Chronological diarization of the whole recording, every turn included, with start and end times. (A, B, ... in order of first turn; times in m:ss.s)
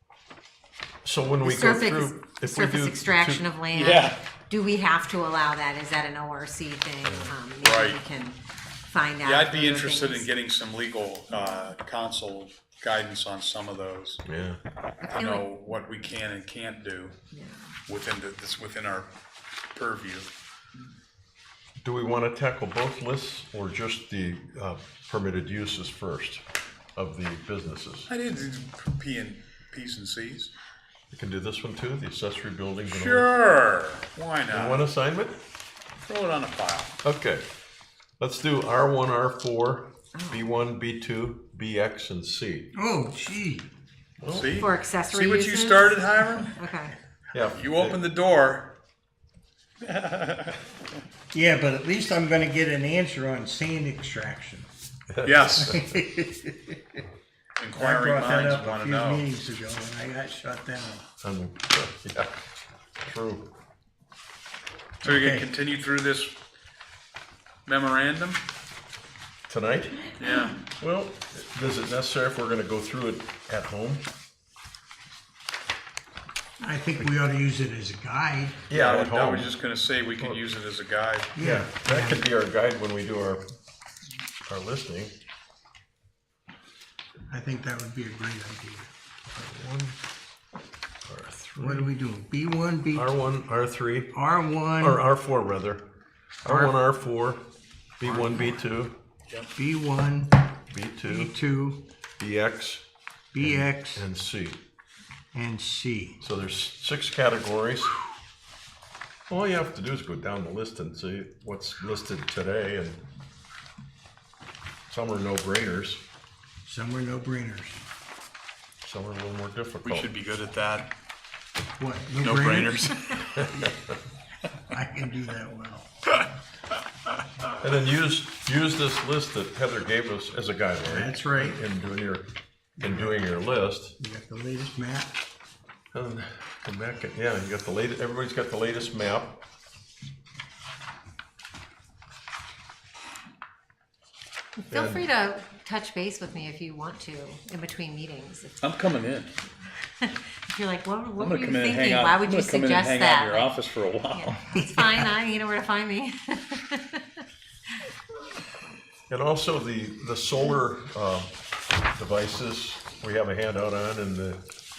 0:01.0-0:03.4 A
0:01.4-0:08.4 B
0:03.7-0:04.2 C
0:07.0-0:07.3 A
0:07.6-0:08.0 C
0:08.9-0:10.3 B
0:09.2-0:14.2 C
0:14.2-0:14.6 A
0:15.0-0:15.5 B
0:15.1-0:17.2 C
0:17.3-0:17.7 B
0:17.9-0:19.1 C
0:19.7-0:20.3 C
0:21.8-0:26.4 A
0:27.0-0:28.1 A
0:28.1-0:30.5 C
0:31.1-0:33.3 A
0:32.9-0:34.8 C
0:34.5-0:35.4 A
0:36.0-0:36.9 C
0:37.0-0:37.4 A
0:38.2-0:42.7 A
0:40.1-0:40.4 B
0:42.7-0:43.7 D
0:44.2-0:44.7 A
0:44.3-0:46.6 C
0:44.5-0:46.9 B
0:47.3-0:48.0 A
0:47.5-0:48.8 C
0:49.8-0:50.6 C
0:51.3-0:54.7 D
0:55.1-0:55.7 A
0:55.2-0:55.9 C
0:55.6-0:57.0 D
0:57.6-0:59.2 C
0:57.7-1:01.0 D
1:01.2-1:02.3 A
1:03.0-1:03.5 A
1:05.0-1:06.4 C
1:05.0-1:05.5 D
1:07.6-1:08.4 C
1:09.5-1:10.0 A
1:10.2-1:10.6 C
1:10.6-1:14.0 A
1:16.6-1:18.6 D
1:18.7-1:19.5 A
1:18.7-1:21.3 C
1:21.4-1:22.2 D
1:21.4-1:23.5 A
1:24.5-1:25.1 A
1:27.3-1:28.9 D
1:29.3-1:30.0 A
1:31.1-1:31.9 A
1:31.6-1:33.1 D
1:32.9-1:34.1 A
1:34.1-1:35.0 D
1:34.8-1:35.8 A
1:36.4-1:37.4 A
1:36.5-1:36.7 D
1:38.0-1:39.0 A
1:38.0-1:38.6 D
1:39.5-1:40.4 D
1:40.7-1:41.3 A
1:41.1-1:41.8 D
1:42.2-1:42.8 A
1:43.3-1:44.0 D
1:43.4-1:44.6 A
1:45.3-1:46.2 D
1:46.2-1:48.0 A
1:49.3-1:53.1 A
1:54.9-1:56.0 A
1:56.6-1:57.8 D
1:58.8-2:00.1 A
1:59.8-2:00.9 C
2:01.8-2:03.7 D
2:02.2-2:03.4 C
2:04.7-2:05.9 D
2:07.6-2:12.3 A
2:10.8-2:11.6 D
2:12.8-2:13.2 D
2:12.8-2:14.0 A
2:14.0-2:15.2 D
2:15.9-2:19.4 A
2:24.6-2:28.7 B
2:24.7-2:25.0 A
2:28.6-2:29.3 C
2:30.0-2:33.5 B
2:31.2-2:34.4 C
2:34.1-2:37.2 B
2:34.5-2:35.0 D
2:39.1-2:41.4 A
2:41.9-2:44.5 A